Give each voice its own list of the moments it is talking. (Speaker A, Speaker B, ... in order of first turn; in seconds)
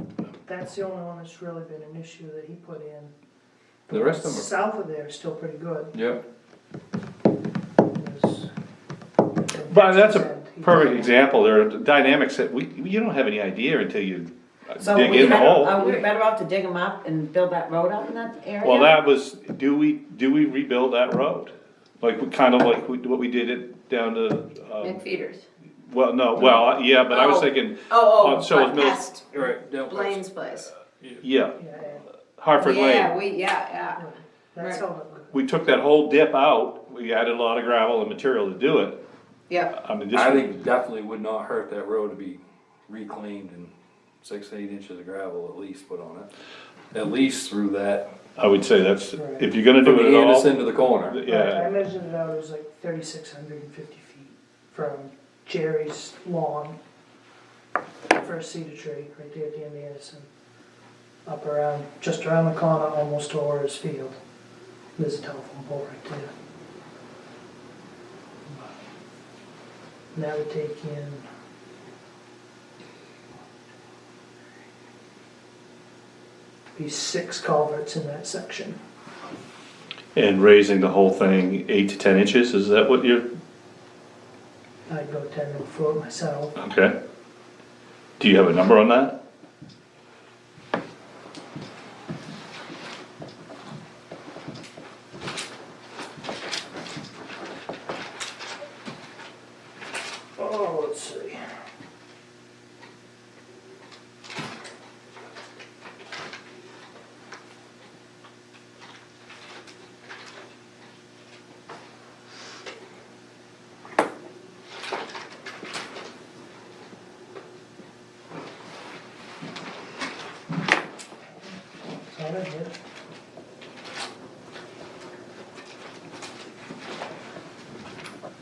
Speaker A: 0.5-3.1, 3.9-6.0, 8.0-8.5, 9.4-11.2, 31.6-32.0, 34.0-35.3, 49.1-49.5, 51.2-56.8, 58.2-60.3, 61.3-64.2, 65.0-66.3, 70.1-71.2, 76.8-78.8, 84.9-86.6, 100.4-101.4, 122.1-122.8
Speaker B: 3.9-4.5, 5.9-6.2, 29.3-31.2, 40.1-43.7, 44.2-46.3, 46.9-48.0, 49.8-51.2
Speaker C: 9.7-15.7, 18.6-25.0, 25.9-29.1, 31.2-31.6, 32.4-33.1, 35.3-39.0, 39.7-40.5, 48.4-51.7, 80.2-83.3, 86.6-86.9, 88.2-89.2
Speaker D: 14.8-18.9
Speaker E: 15.0-16.1, 24.8-25.4, 26.4-30.7, 32.6-34.0